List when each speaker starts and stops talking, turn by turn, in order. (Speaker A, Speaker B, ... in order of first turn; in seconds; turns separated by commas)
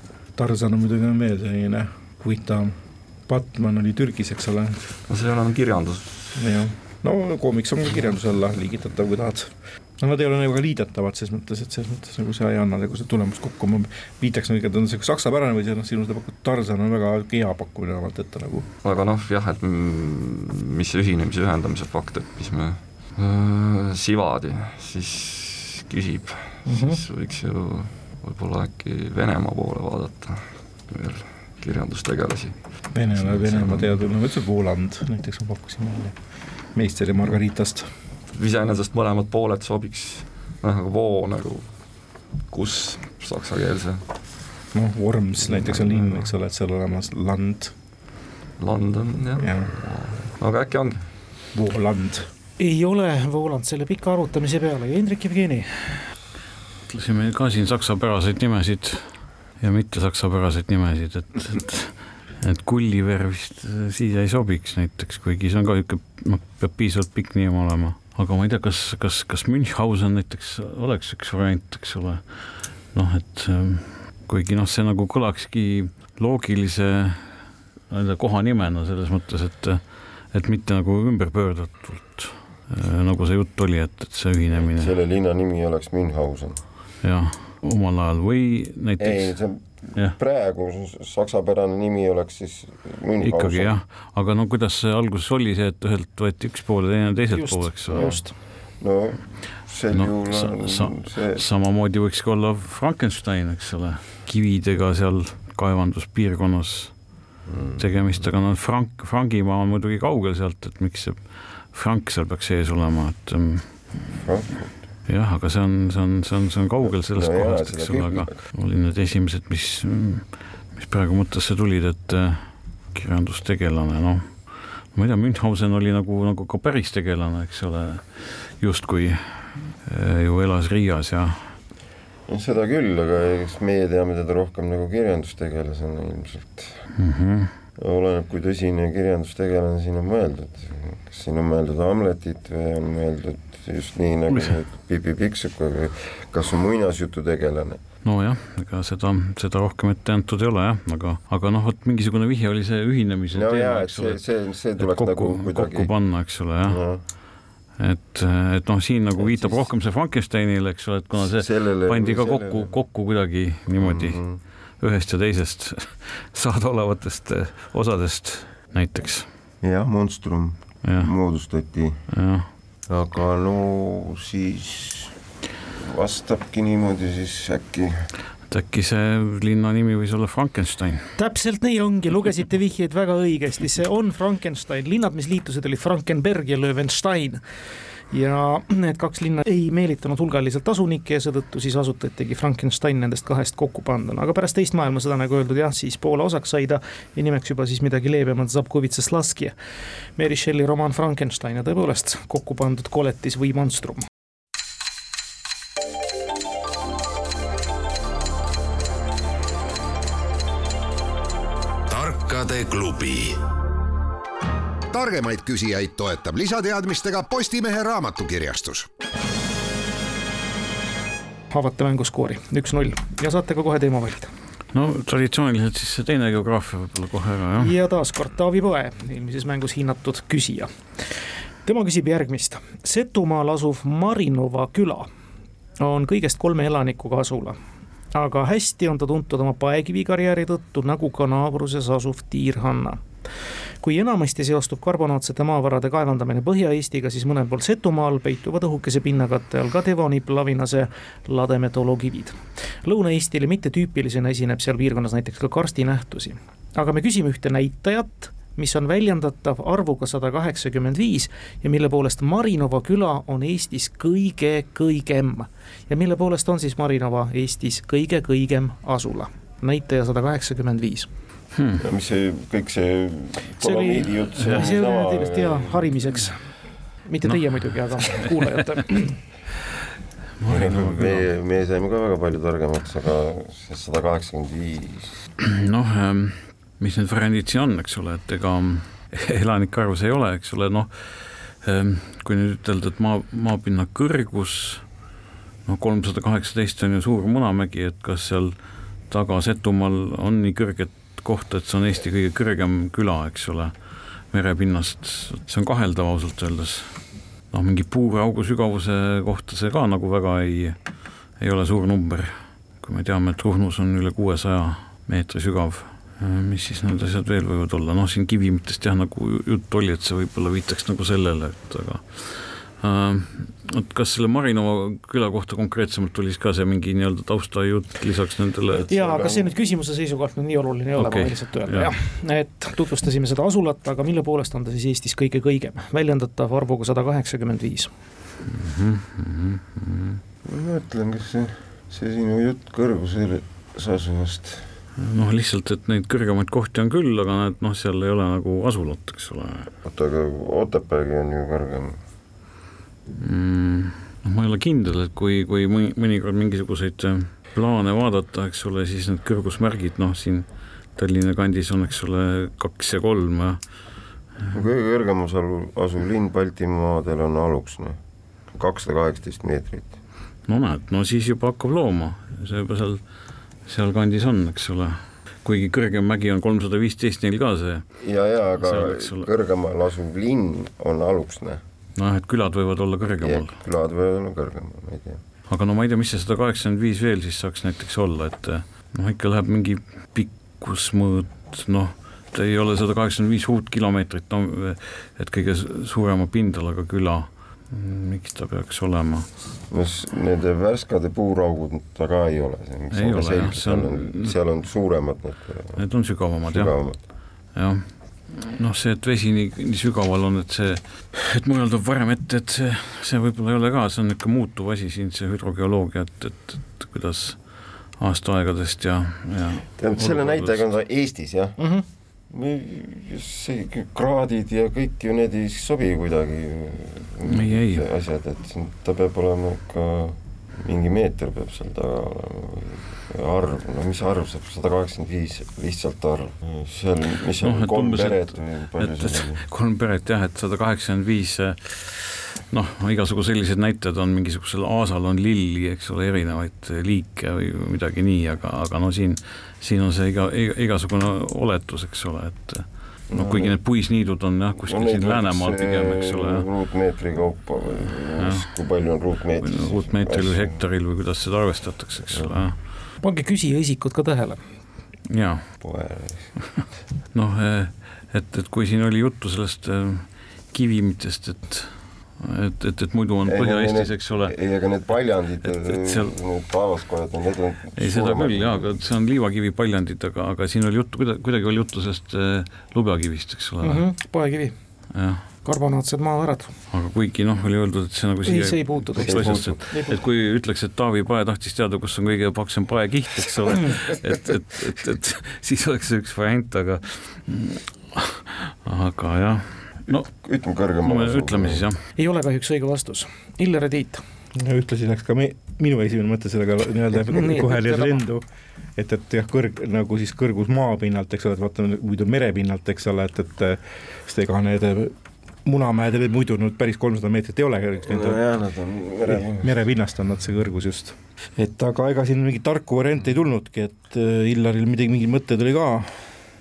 Speaker A: 0.4-4.8, Speaker B: 5.1-6.5, Speaker A: 6.4-18.7, Speaker B: 18.8-34.0, Speaker C: 26.7-27.0, Speaker A: 32.9-36.2, Speaker A: 36.7-37.9, Speaker B: 38.3-41.8, Speaker B: 42.4-44.0, Speaker A: 44.7-47.7, Speaker B: 45.4-46.2, Speaker B: 48.6-51.0, Speaker A: 49.4-49.7, Speaker A: 51.5-52.3, Speaker C: 52.6-56.1, Speaker D: 56.9-84.9, Speaker E: 84.5-86.7, Speaker D: 87.0-90.2, Speaker E: 89.0-93.8, Speaker D: 93.2-98.3, Speaker C: 97.3-98.4, Speaker E: 98.8-101.4, Speaker D: 99.9-107.1, Speaker E: 107.5-108.3, Speaker D: 107.8-114.2, Speaker E: 114.2-114.9, Speaker D: 115.1-131.6, Speaker E: 116.8-118.5, Speaker E: 132.3-136.8, Speaker D: 137.0-137.6, Speaker E: 137.8-147.8, Speaker D: 144.3-144.6, Speaker D: 148.0-156.8, Speaker E: 153.3-157.1, Speaker D: 157.8-169.3, Speaker E: 159.2-159.8, Speaker E: 161.2-162.7, Speaker E: 163.8-164.4, Speaker E: 169.6-172.0, Speaker D: 170.8-171.1, Speaker D: 172.1-172.5, Speaker E: 172.9-175.1, Speaker E: 175.8-178.1, Speaker D: 178.5-181.1, Speaker C: 181.2-187.4, Speaker C: 188.1-199.6, Speaker C: 200.2-204.1, Speaker F: 211.9-213.4, Speaker F: 214.9-218.9, Speaker C: 221.5-224.3, Speaker D: 224.7-227.7, Speaker C: 227.6-230.7, Speaker C: 231.7-235.1, Speaker C: 235.8-237.6, Speaker C: 238.1-243.0, Speaker C: 243.8-271.1, Speaker D: 271.6-271.8, Speaker E: 271.8-276.1, Speaker C: 273.6-276.5, Speaker D: 274.4-274.7, Speaker C: 277.1-279.2, Speaker D: 277.3-277.7, Speaker D: 280.4-281.3, Speaker E: 280.4-285.2, Speaker D: 285.4-294.9, Speaker D: 295.6-303.7, Speaker D: 304.3-329.3, Speaker C: 328.9-337.9, Speaker D: 331.0-331.9, Speaker D: 338.5-340.2, Speaker E: 340.4-344.7, Speaker D: 345.0-349.7, Speaker E: 349.8-352.0, Speaker D: 353.2-363.6, Speaker E: 364.5-368.0, Speaker E: 368.5-369.9, Speaker D: 370.5-373.1, Speaker D: 373.6-379.3, Speaker E: 378.0-381.6, Speaker D: 382.0-383.6, Speaker E: 383.2-385.2, Speaker D: 385.5-399.3, Speaker E: 399.7-407.0, Speaker D: 402.9-404.4, Speaker D: 405.8-420.7, Speaker E: 419.8-421.7, Speaker C: 421.6-421.9, Speaker E: 422.3-439.4, Speaker D: 427.3-427.9, Speaker D: 437.4-456.5, Speaker E: 453.1-453.6, Speaker E: 454.6-460.6, Speaker D: 458.2-462.7, Speaker E: 462.1-462.4, Speaker C: 463.0-464.4, Speaker D: 465.1-465.5, Speaker E: 465.6-466.4, Speaker D: 466.4-474.4, Speaker E: 473.2-478.8, Speaker D: 475.4-476.1, Speaker D: 477.8-483.9, Speaker C: 483.6-484.6, Speaker D: 484.9-485.2, Speaker C: 485.4-486.5, Speaker D: 486.7-500.1, Speaker C: 488.2-490.0, Speaker E: 489.0-489.6, Speaker E: 500.2-501.7, Speaker D: 500.8-501.8, Speaker C: 502.0-504.0, Speaker A: 504.4-508.2, Speaker C: 507.1-508.0, Speaker A: 508.8-518.2, Speaker E: 517.9-519.6, Speaker A: 519.1-526.0